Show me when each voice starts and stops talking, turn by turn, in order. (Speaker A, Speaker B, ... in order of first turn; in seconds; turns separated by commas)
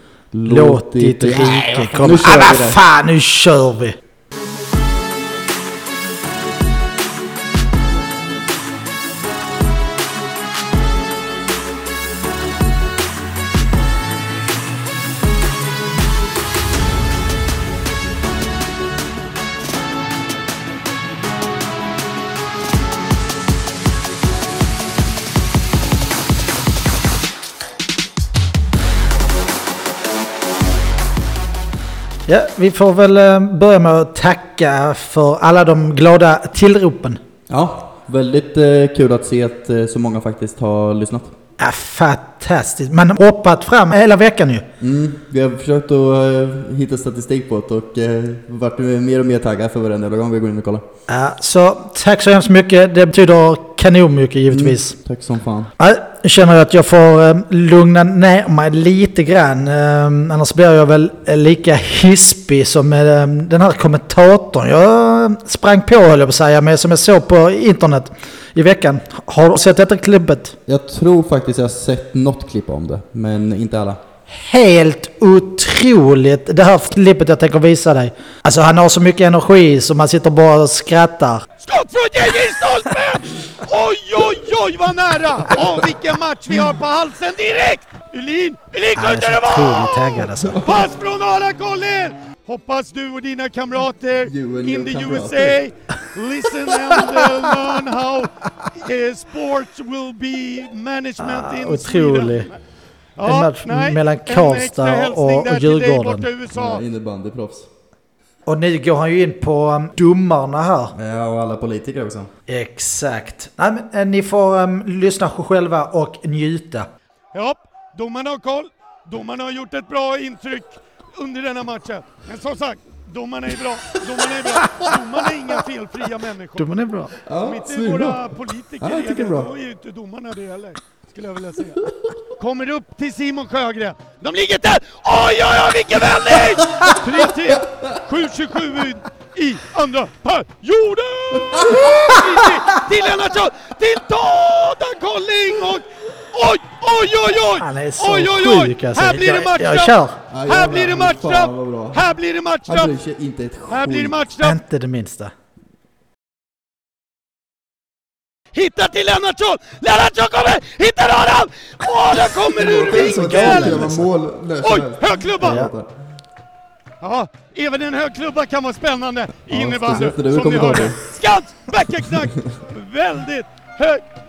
Speaker A: 0.3-2.8, Speaker B: 0.5-4.0, Speaker B: 32.3-37.2, Speaker A: 37.5-41.4, Speaker B: 41.6-44.7, Speaker A: 44.8-50.8, Speaker B: 51.1-54.9, Speaker A: 54.5-55.7, Speaker B: 55.8-70.6, Speaker A: 70.7-74.0, Speaker B: 74.3-81.5, Speaker C: 81.6-102.6, Speaker B: 89.0-90.6, Speaker A: 90.3-90.9, Speaker A: 94.2-95.6, Speaker B: 101.2-102.5, Speaker C: 103.2-106.8, Speaker B: 103.2-106.3, Speaker A: 106.5-107.7, Speaker B: 108.5-110.9, Speaker A: 110.9-112.3, Speaker B: 112.5-116.9, Speaker C: 117.3-126.7, Speaker B: 126.6-127.1, Speaker A: 127.2-129.5, Speaker C: 127.4-152.9, Speaker A: 141.5-141.9, Speaker B: 147.6-150.2, Speaker A: 150.3-152.1, Speaker A: 152.7-154.3, Speaker C: 153.7-154.6, Speaker B: 154.4-155.3, Speaker C: 158.5-163.9, Speaker A: 162.6-165.9, Speaker B: 162.8-164.1, Speaker C: 164.6-165.7, Speaker B: 165.4-165.7, Speaker C: 167.0-174.0, Speaker A: 169.5-171.0